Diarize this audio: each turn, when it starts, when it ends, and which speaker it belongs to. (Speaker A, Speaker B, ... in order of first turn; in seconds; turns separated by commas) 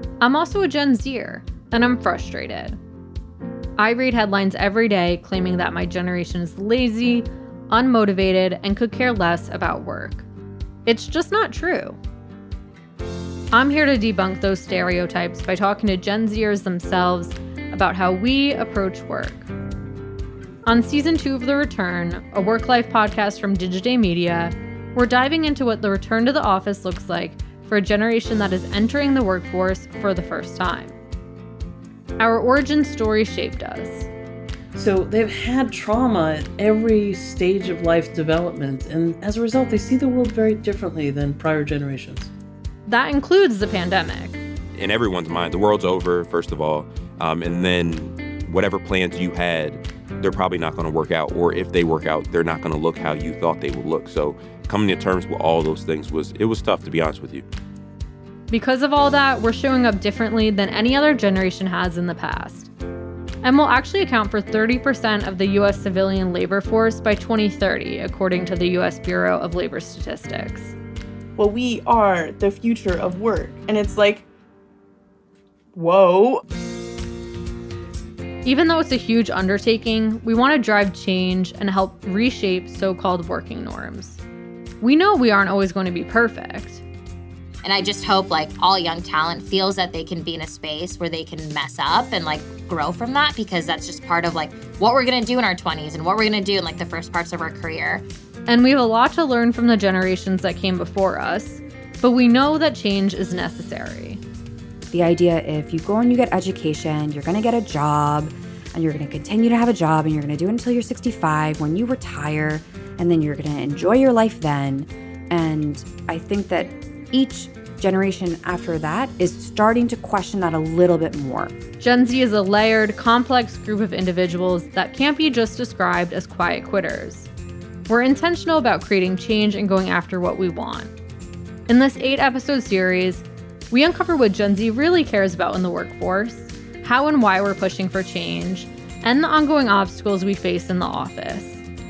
Speaker A: 0.2-2.8, Speaker A: 3.8-10.3, Speaker A: 10.9-12.0, Speaker A: 13.5-19.5, Speaker A: 20.7-31.0, Speaker A: 32.2-34.1, Speaker B: 34.8-42.3, Speaker A: 42.9-44.4, Speaker C: 44.8-57.5, Speaker A: 58.5-62.7, Speaker A: 63.4-70.8, Speaker D: 71.4-74.3, Speaker D: 75.7-76.4, Speaker A: 78.5-84.2, Speaker A: 84.8-86.8, Speaker E: 87.6-98.0, Speaker A: 98.5-104.2, Speaker F: 104.9-121.5, Speaker A: 121.8-127.3, Speaker A: 127.9-130.9, Speaker A: 131.7-141.6